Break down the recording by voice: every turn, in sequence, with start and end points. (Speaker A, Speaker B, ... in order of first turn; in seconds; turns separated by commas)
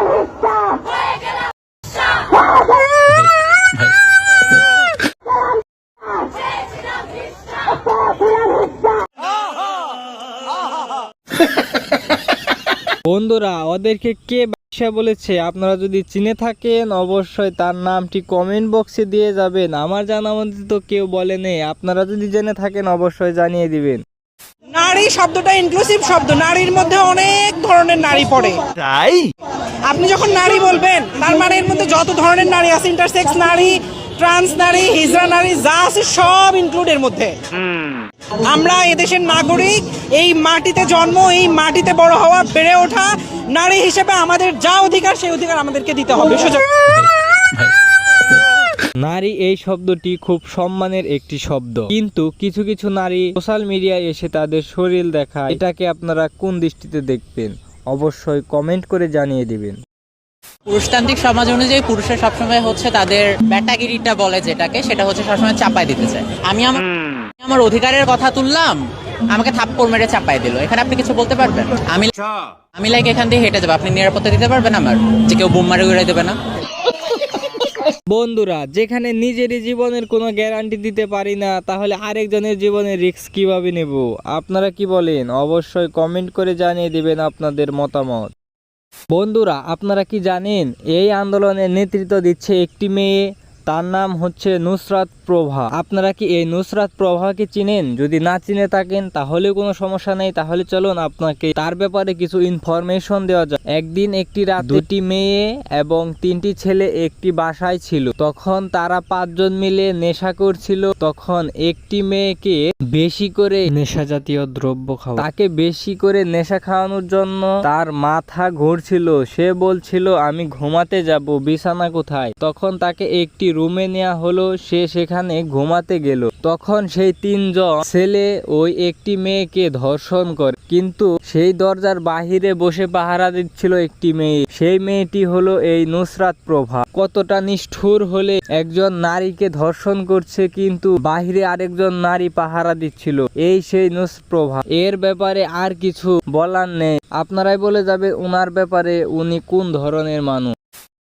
Speaker A: 3.0-4.6, Speaker B: 13.1-24.0, Speaker C: 24.7-28.6, Speaker A: 28.8-29.3, Speaker C: 29.9-37.3, Speaker C: 38.4-46.6, Speaker A: 46.9-47.8, Speaker B: 49.0-59.8, Speaker D: 60.7-66.8, Speaker D: 67.4-68.8, Speaker D: 69.3-76.4, Speaker B: 78.1-88.3, Speaker B: 89.1-150.6